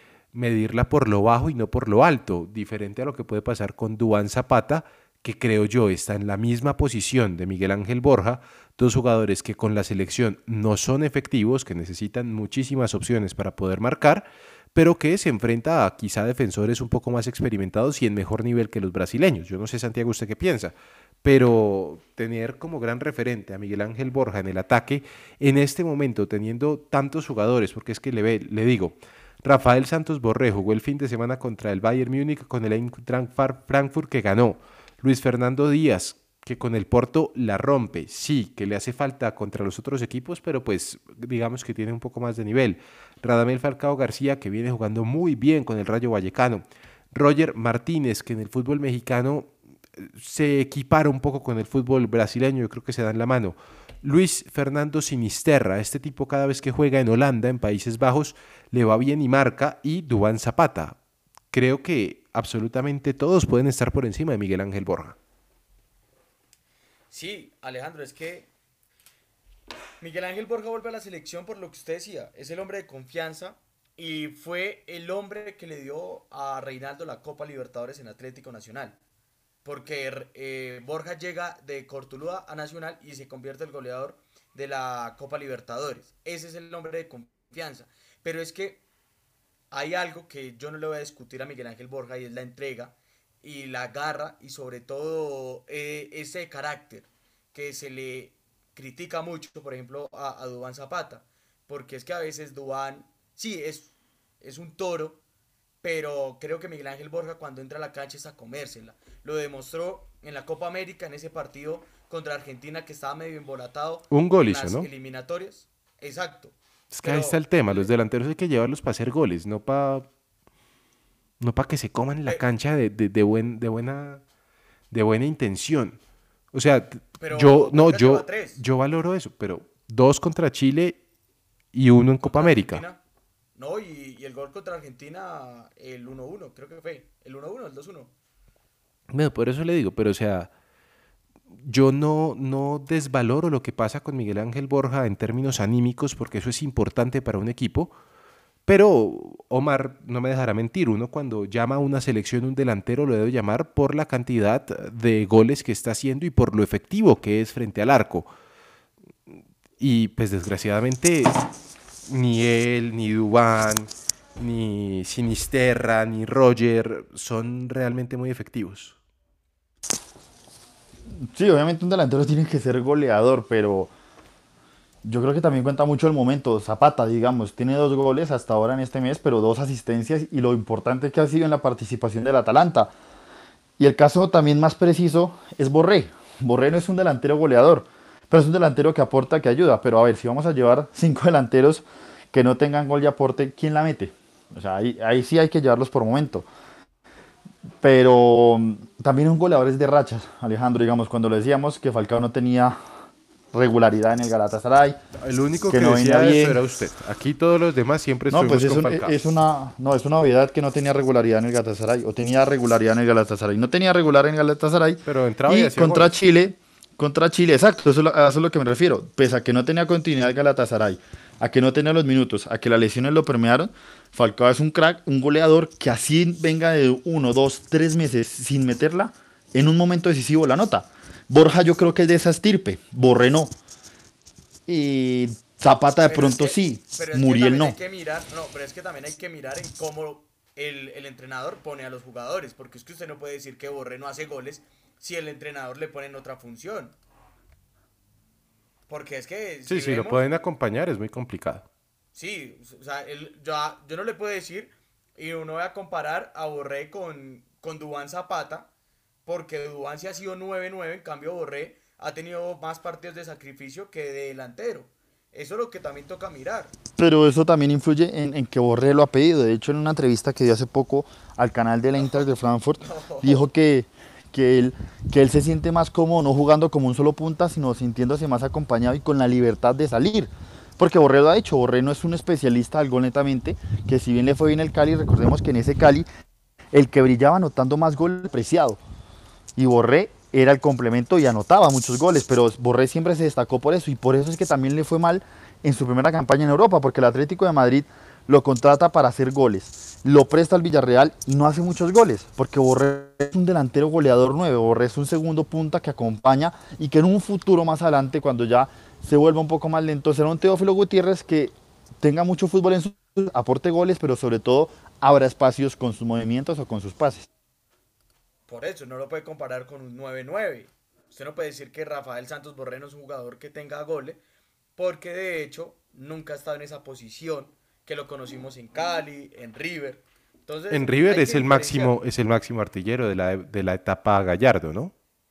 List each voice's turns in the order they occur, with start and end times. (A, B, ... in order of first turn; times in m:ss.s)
0:00.3-1:01.0 A
1:01.5-1:05.2 A
1:07.1-1:08.5 B
1:10.0-1:19.0 B
1:19.6-1:28.8 B
1:29.7-1:45.2 B
1:45.8-1:57.9 B
1:54.1-1:54.9 A
1:56.9-2:00.1 A
2:01.4-2:04.2 A
2:04.9-2:06.0 A
2:06.5-2:11.0 A
2:07.2-2:08.6 B
2:11.7-2:12.8 A
2:12.2-2:13.0 B
2:13.6-2:18.1 B
2:19.1-2:20.5 A
2:21.6-2:27.9 A
2:28.6-2:38.3 A
2:39.3-2:41.4 A
2:42.1-2:49.0 A
2:51.3-2:53.9 C
2:55.0-3:02.9 C
3:03.8-3:16.5 C
3:17.8-3:22.8 C
3:23.5-3:25.0 C
3:25.2-3:29.2 A
3:25.7-3:26.6 C
3:28.3-3:53.5 C
3:35.0-3:36.1 A
3:54.7-3:57.8 C
3:56.0-4:06.9 B
4:08.9-4:10.2 B
4:09.7-4:11.6 A
4:12.1-4:18.7 B
4:19.2-4:26.8 B
4:26.9-4:46.0 C
4:32.0-4:33.4 B
4:46.7-4:48.8 C
4:49.6-5:17.3 C
5:18.5-5:24.2 B
5:24.8-5:31.9 B
5:30.7-5:34.9 A